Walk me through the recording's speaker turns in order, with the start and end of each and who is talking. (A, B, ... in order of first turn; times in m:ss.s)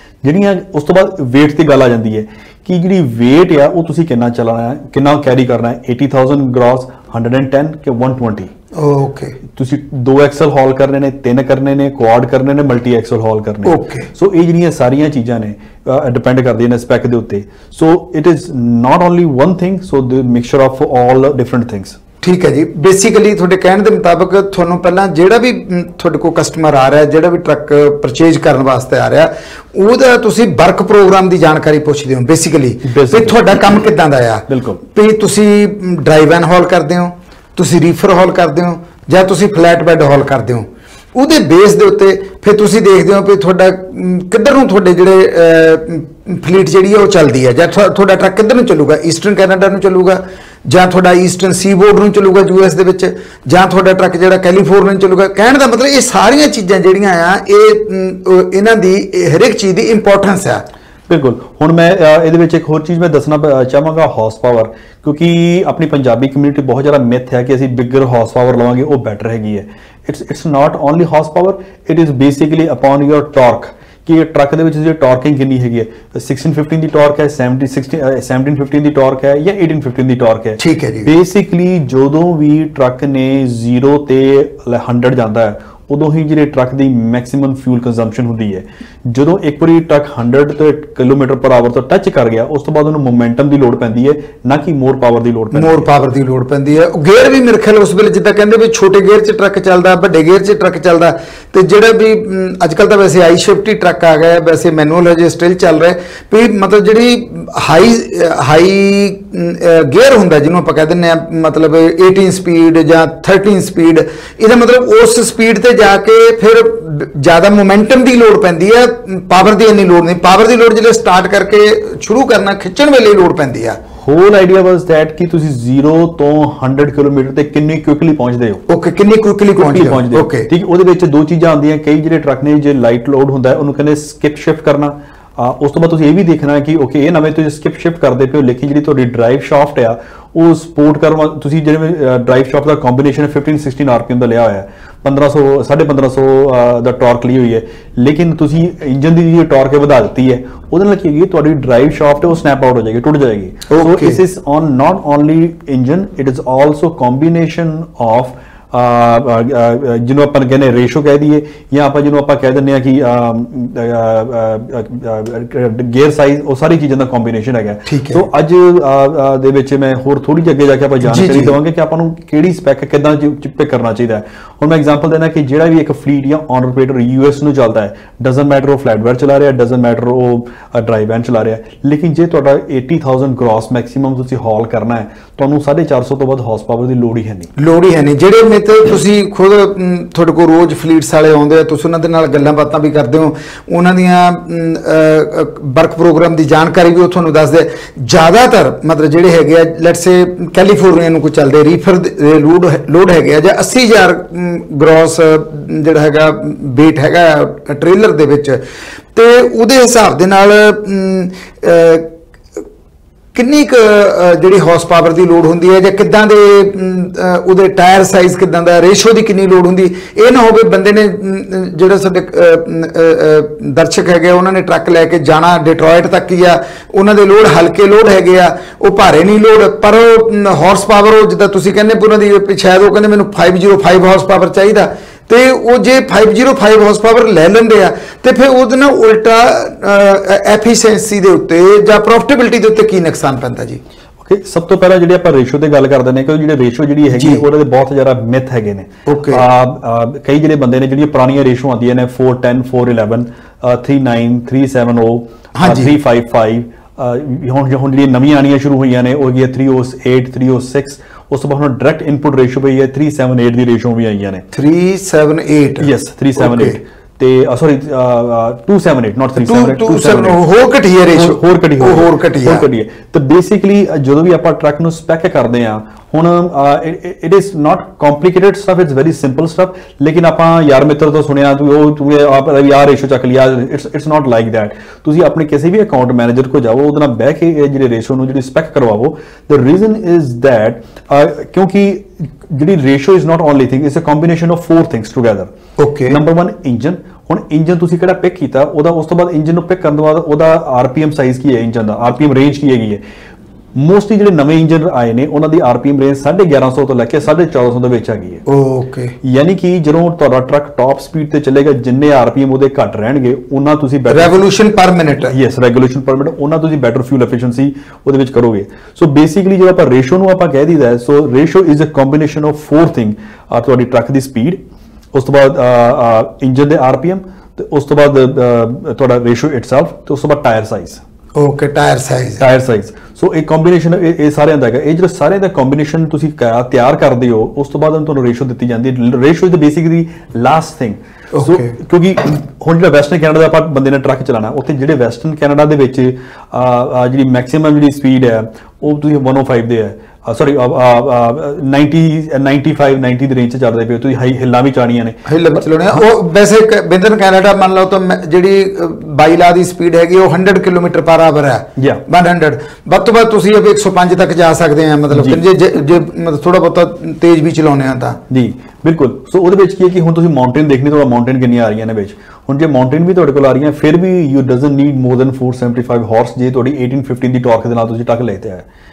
0:00.2-0:08.5 A
0:08.8-0:09.4 B
0:09.6-0:22.0 A
0:13.6-0:14.1 B
0:22.2-1:00.6 B
0:32.8-0:33.4 A
0:34.5-0:34.8 A
1:01.1-1:35.9 A
1:20.6-1:21.1 B
1:35.5-2:03.8 B
2:04.0-2:08.6 A
2:08.7-2:10.5 B
2:09.6-3:07.5 A
2:33.7-2:34.2 B
2:47.9-2:48.2 B
2:51.0-2:51.5 B
3:07.6-3:28.6 B
3:29.2-3:32.1 B
3:33.4-4:03.8 B
4:04.2-4:24.4 A
4:07.1-4:07.4 B
4:09.1-4:09.4 B
4:15.6-4:15.9 B
4:24.5-4:26.8 B
4:25.8-4:30.4 A
4:29.4-4:32.7 B
4:31.1-4:55.5 A
4:55.8-4:56.2 B
4:56.1-5:03.0 A
5:03.8-5:08.4 A
5:08.5-5:09.2 B
5:09.2-5:14.4 A
5:14.1-5:15.4 B
5:15.3-5:24.6 A
5:25.1-5:31.0 A
5:31.4-5:32.4 B
5:32.4-5:56.0 A
5:41.3-5:41.7 B
5:55.3-6:08.2 B
6:05.1-6:05.4 A
6:08.3-6:18.7 A